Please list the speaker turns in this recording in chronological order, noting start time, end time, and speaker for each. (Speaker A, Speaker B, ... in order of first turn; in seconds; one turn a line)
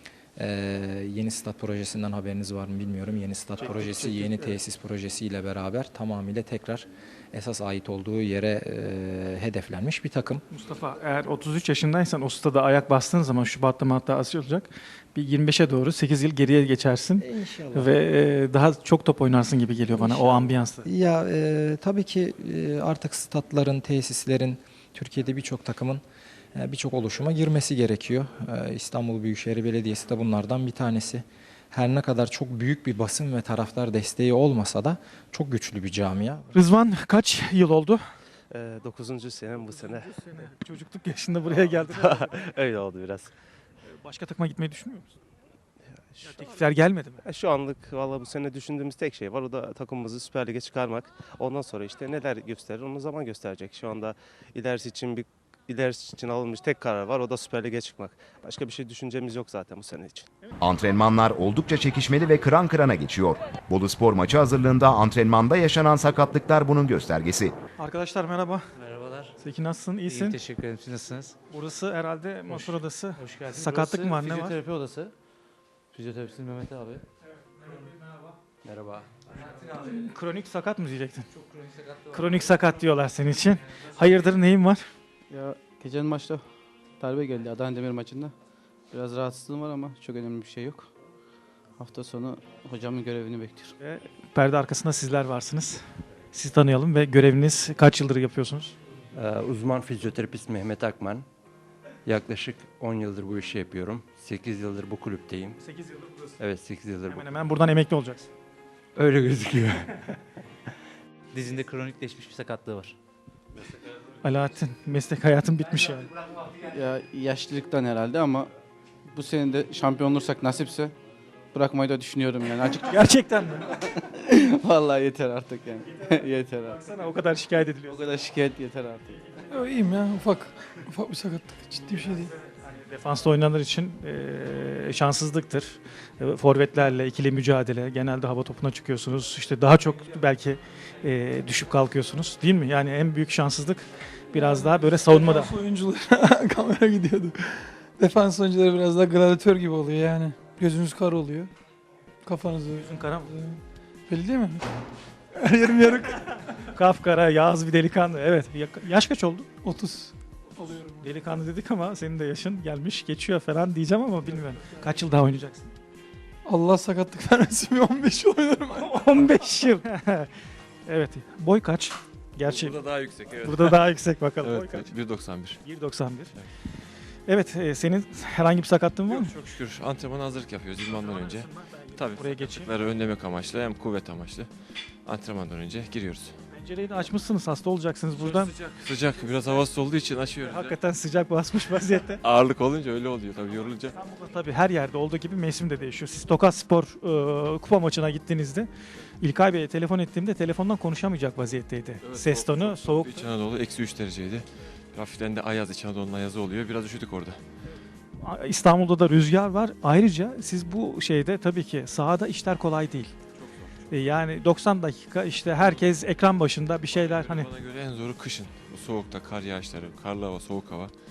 Speaker A: 0.4-10.4
Speaker B: 10.5-20.9
Speaker A: 17.2-18.0
Speaker A: 19.9-26.0
Speaker A: 26.6-36.5
Speaker B: 36.5-38.0
Speaker C: 38.5-40.5
Speaker B: 40.2-42.3
Speaker C: 41.5-43.3
Speaker B: 43.9-45.1
Speaker C: 46.1-46.5
Speaker B: 46.2-47.2
Speaker C: 47.2-60.3
Speaker D: 60.6-67.5
Speaker B: 67.8-68.7
Speaker E: 68.8-69.3
Speaker B: 69.4-70.4
Speaker E: 70.1-71.3
Speaker B: 71.5-74.6
Speaker E: 72.5-75.1
Speaker E: 75.9-77.0
Speaker F: 78.6-79.1
Speaker B: 79.8-81.3
Speaker E: 81.5-82.4
Speaker B: 82.1-84.8
Speaker G: 85.3-86.4
Speaker G: 87.0-88.3
Speaker G: 88.9-90.9
Speaker G: 91.8-93.7
Speaker B: 93.8-98.8
Speaker F: 99.1-101.3
Speaker F: 102.1-105.6
Speaker B: 105.6-106.3
Speaker F: 106.4-107.3
Speaker B: 107.1-108.3
Speaker F: 109.0-110.1
Speaker E: 111.3-113.0
Speaker B: 114.2-116.1
Speaker G: 116.7-118.5
Speaker G: 119.1-120.9
Speaker G: 121.5-122.9
Speaker B: 122.8-123.7
Speaker G: 124.3-126.8
Speaker B: 126.8-128.1
Speaker G: 127.9-129.2
Speaker H: 129.5-132.3
Speaker B: 132.8-145.6
Speaker H: 144.3-151.5
Speaker H: 152.2-153.4
Speaker B: 152.7-153.4
Speaker H: 154.1-154.6
Speaker H: 155.4-156.3
Speaker B: 156.7-159.5
Speaker H: 159.6-161.1
Speaker B: 161.0-165.7
Speaker H: 166.5-169.0
Speaker B: 168.8-170.3
Speaker B: 170.9-172.8
Speaker I: 172.4-173.8
Speaker B: 173.4-174.9
Speaker I: 174.4-175.7
Speaker B: 175.6-176.3
Speaker B: 177.3-179.3
Speaker I: 179.1-184.5
Speaker B: 181.1-182.7
Speaker I: 185.1-186.3
Speaker B: 186.5-188.5
Speaker I: 188.2-190.8
Speaker B: 190.4-192.2
Speaker I: 192.2-194.0
Speaker B: 193.9-198.7
Speaker B: 199.2-203.3
Speaker I: 202.0-207.4
Speaker B: 208.2-213.1
Speaker I: 213.4-213.7
Speaker B: 213.9-217.5
Speaker I: 216.9-220.9